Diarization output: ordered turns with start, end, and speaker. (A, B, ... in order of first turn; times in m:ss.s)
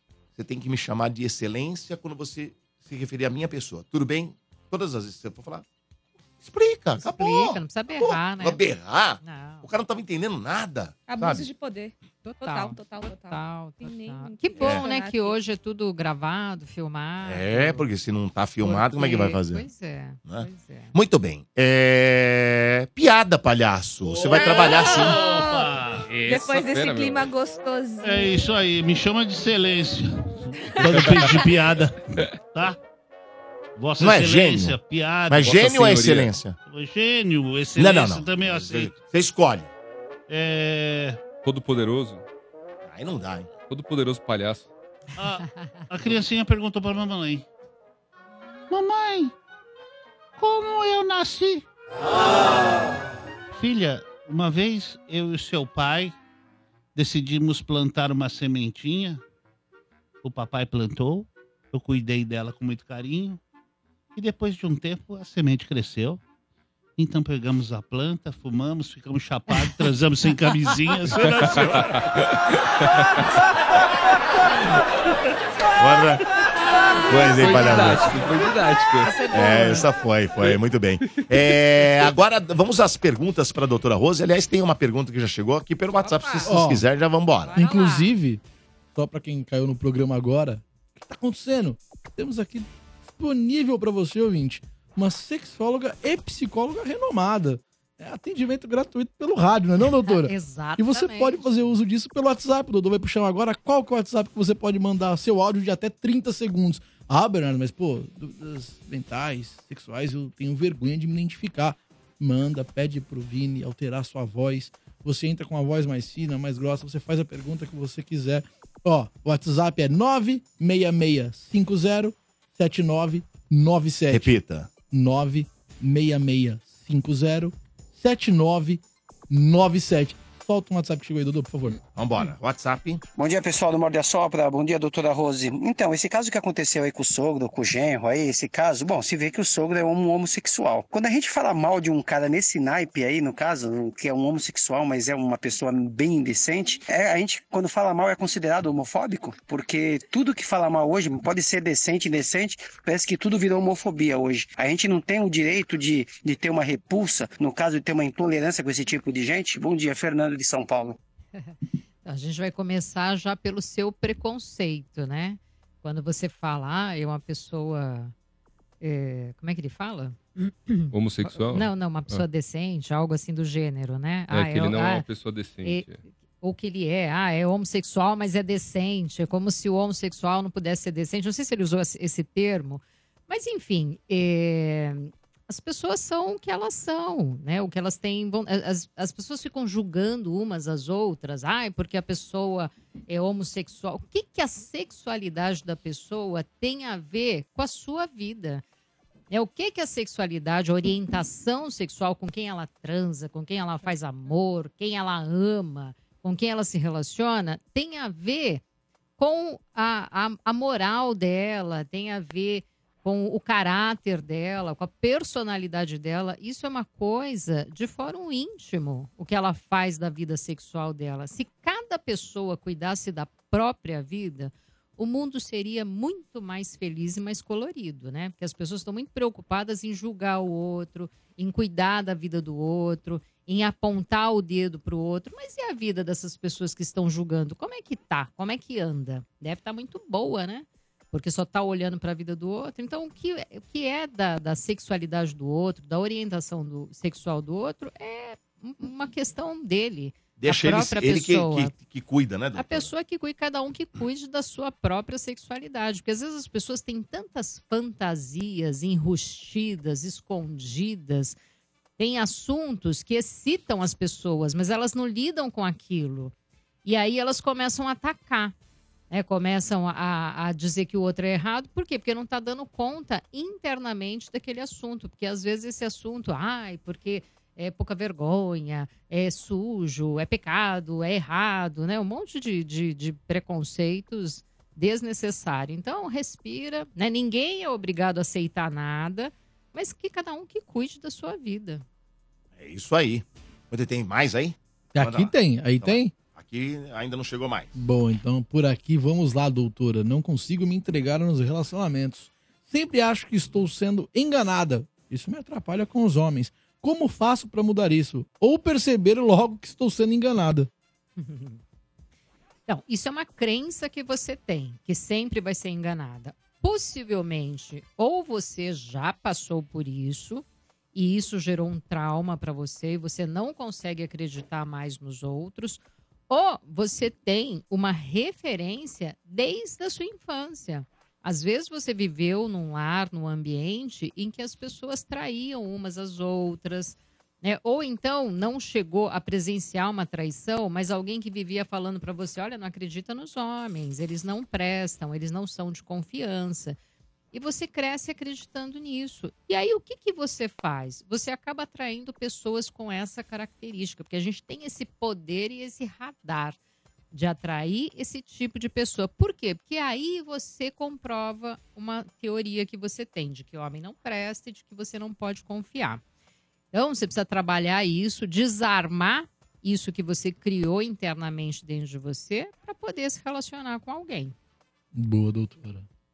0:00.3-0:05.6 A
0:06.4-0:11.4 A
0:07.0-0:08.6 B
0:09.2-0:09.7 B
0:11.1-0:15.4 C
0:12.2-0:17.9 B
0:14.6-0:14.8 A
0:17.2-0:19.6 A
0:18.6-0:20.9 B
0:20.2-0:25.2 A
0:24.1-0:26.1 D
0:24.3-0:25.6 C
0:26.1-0:27.2 E
0:26.2-0:28.4 C
0:28.0-0:32.8 D
0:33.8-0:35.9 D
0:34.0-0:34.8 A
0:35.3-0:36.6 A
0:35.6-0:36.3 E
0:36.7-0:38.9 D
0:37.8-0:39.7 A
0:40.3-0:41.2 D
0:41.4-0:42.2 E
0:42.8-0:43.5 A
0:43.7-0:44.7 E
0:45.2-0:47.4 D
0:48.7-0:49.3 D
0:50.4-0:51.6 D
0:53.5-0:56.1 D
0:56.9-0:59.2 D
1:00.2-1:03.4 D
1:04.1-1:06.2 D
1:07.0-1:12.2 D
1:12.8-1:13.2 E
1:15.8-1:16.2 A
1:17.1-1:18.1 A
1:17.2-1:19.2 E
1:17.4-1:17.9 B
1:19.0-1:19.9 B
1:19.3-1:27.6 A
1:21.2-1:21.9 E
1:26.0-1:26.6 B
1:26.5-1:26.8 F
1:27.4-1:28.1 B
1:27.5-1:28.4 F
1:28.9-2:04.3 F
1:40.0-1:41.6 B
2:04.1-2:04.7 A
2:04.9-2:11.8 F
2:12.0-2:13.0 A
2:13.2-2:41.0 G
2:42.0-2:48.1 B
2:48.8-2:55.0 B
2:50.9-2:52.2 E
2:54.3-2:56.0 E
2:56.4-3:18.6 B
3:19.3-3:28.6 B
3:29.2-4:11.7 B
4:10.4-4:12.9 A
4:12.5-4:21.4 B
4:22.0-4:26.3 B
4:26.8-4:28.5 B
4:29.1-4:51.8 B
4:52.6-4:57.7 A
4:54.9-4:56.1 F
4:57.7-5:10.7 F
5:11.2-5:11.6 B
5:12.7-5:46.8 B
5:47.3-5:56.6 B
5:57.1-6:06.0 B
6:06.7-6:14.3 B
6:14.9-6:15.8 F